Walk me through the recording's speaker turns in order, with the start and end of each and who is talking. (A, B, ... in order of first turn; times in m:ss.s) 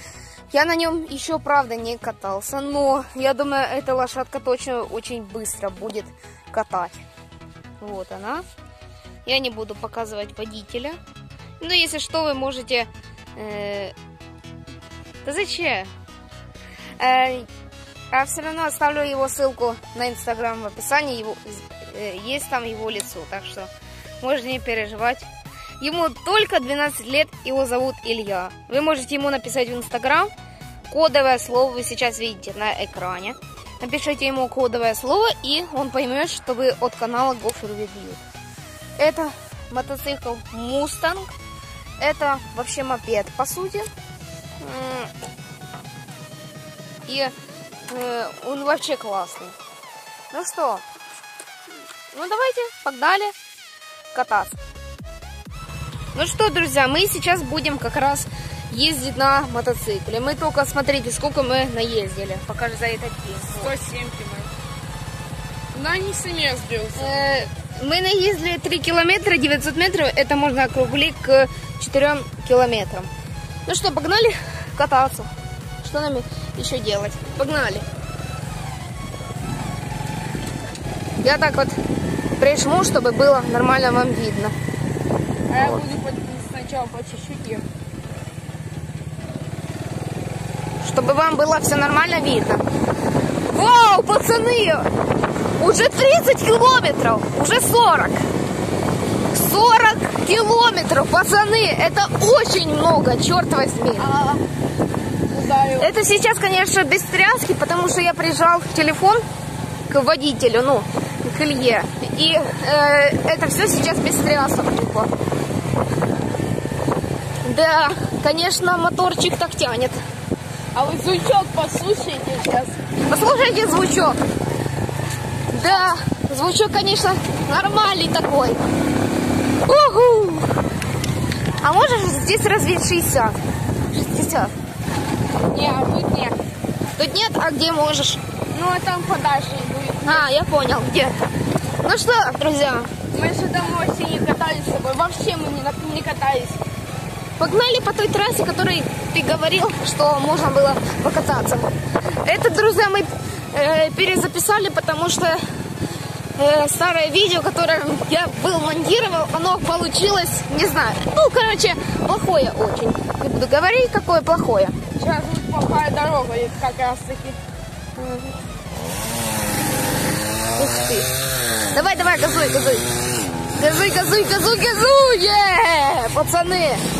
0:00.5-0:07.0 A
0:07.8-0:08.4 A
0:09.2-0:11.0 A
0:11.6-0:13.9 A
0:15.2-0:15.9 A
0:17.0-0:17.5 A
0:18.1-0:23.7 A
0:24.2-0:25.2 A
0:25.8-0:30.3 A
0:30.9-0:38.2 A
0:39.0-0:41.3 A
0:42.0-0:43.9 A
0:44.6-0:45.1 A
0:47.0-0:47.3 A
0:47.9-0:49.5 A
0:50.3-0:50.8 A
0:52.1-0:53.3 A
0:54.1-0:54.6 A
0:56.1-1:03.7 A
1:03.5-1:04.5 B
1:05.7-1:07.4 B
1:07.0-1:13.1 A
1:13.6-1:15.3 A
1:15.8-1:17.8 A
1:21.2-1:21.8 A
1:22.4-1:24.5 A
1:25.5-1:27.6 B
1:30.8-1:32.6 A
1:33.5-1:34.9 A
1:35.6-1:38.2 A
1:39.3-1:44.1 A
1:44.0-1:44.4 B
1:45.3-1:45.9 B
1:45.8-1:49.2 A
1:49.9-1:55.1 A
1:57.4-2:00.0 A
2:00.7-2:02.8 B
2:03.1-2:04.2 A
2:05.5-2:08.6 A
2:05.5-2:05.9 B
2:09.6-2:10.5 A
2:11.6-2:13.4 A
2:13.9-2:14.5 A
2:15.5-2:16.4 B
2:17.0-2:18.2 A
2:18.5-2:20.3 B
2:20.0-2:21.1 A
2:21.8-2:22.9 A
2:23.1-2:26.6 B
2:27.4-2:31.7 A
2:32.2-2:35.4 A
2:36.4-2:44.8 A
2:45.0-2:47.4 B
2:48.0-2:48.4 A
2:50.5-2:51.1 A
2:51.7-2:52.8 A
2:53.6-2:56.8 A